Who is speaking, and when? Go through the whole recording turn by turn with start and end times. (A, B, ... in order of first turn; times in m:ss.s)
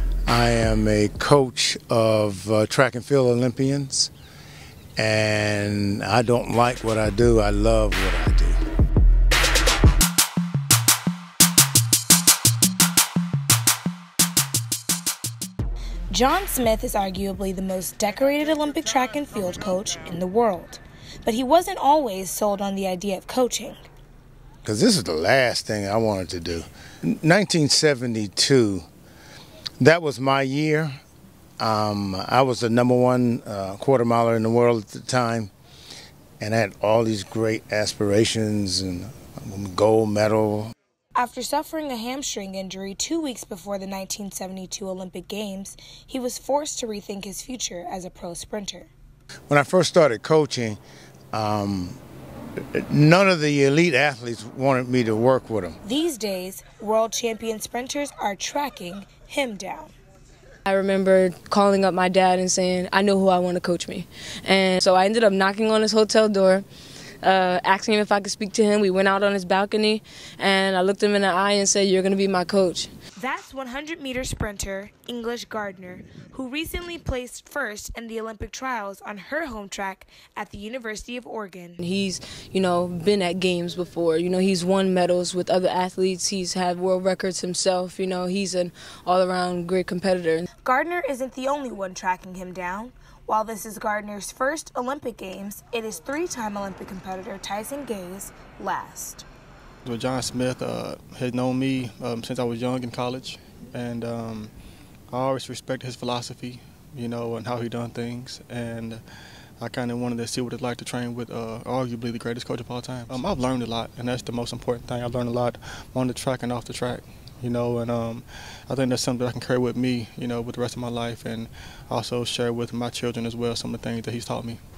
0:00.3-0:04.1 A
0:05.0-0:08.6 A
0:16.1-0:23.8 B
0:24.6-0:28.8 A
0:29.8-0:31.0 A
0:31.6-0:35.5 A
0:36.4-0:40.7 A
0:41.2-0:48.9 B
0:49.5-0:50.8 A
0:51.3-0:52.0 A
0:52.7-0:55.8 A
0:55.8-0:59.9 B
1:00.6-1:06.6 C
1:07.2-1:12.9 C
1:13.2-1:21.8 B
1:21.8-1:30.5 C
1:30.6-1:39.2 B
1:39.8-1:44.5 D
1:45.1-1:49.0 D
1:49.6-2:04.6 D